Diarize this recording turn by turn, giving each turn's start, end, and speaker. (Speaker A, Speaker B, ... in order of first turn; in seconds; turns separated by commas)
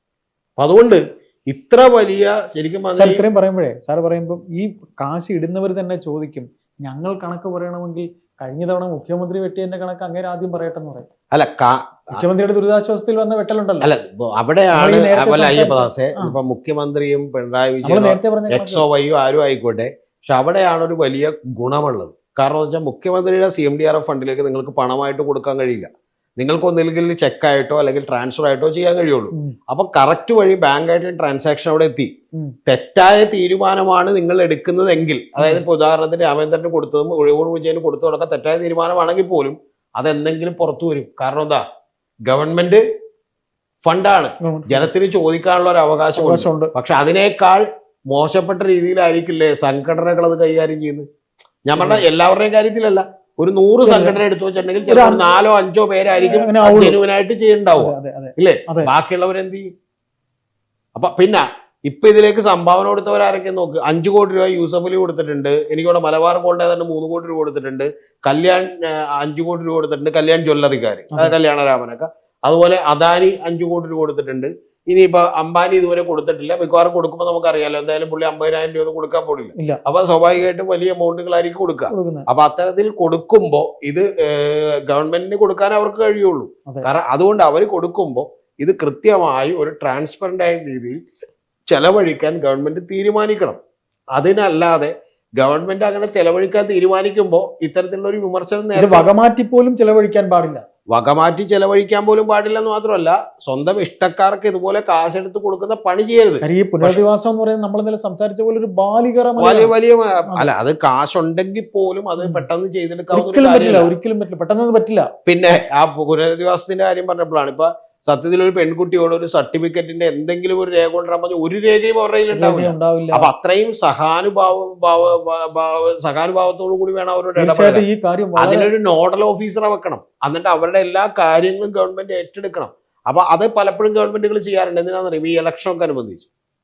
Speaker A: 0.6-3.2, Speaker B: 3.0-11.1, Speaker A: 11.3-12.2, Speaker B: 12.1-13.9, Speaker A: 13.8-32.1, Speaker B: 14.7-16.4, Speaker B: 17.8-18.9, Speaker A: 32.7-41.6, Speaker B: 35.4-35.6, Speaker A: 42.3-42.8, Speaker A: 43.9-51.1, Speaker B: 44.4-44.9, Speaker B: 46.2-46.7, Speaker A: 51.6-59.7, Speaker B: 51.8-52.0, Speaker B: 53.8-54.2, Speaker B: 54.9-55.3, Speaker B: 56.2-57.0, Speaker B: 57.8-58.9, Speaker A: 61.0-91.0, Speaker B: 81.9-82.3, Speaker A: 91.7-93.6, Speaker A: 94.2-99.1, Speaker B: 98.7-100.7, Speaker A: 100.9-107.0, Speaker B: 106.4-109.7, Speaker A: 109.4-113.9, Speaker B: 112.2-112.5, Speaker B: 113.1-115.1, Speaker A: 115.3-127.8, Speaker B: 122.3-123.3, Speaker B: 127.4-128.7, Speaker A: 128.4-136.3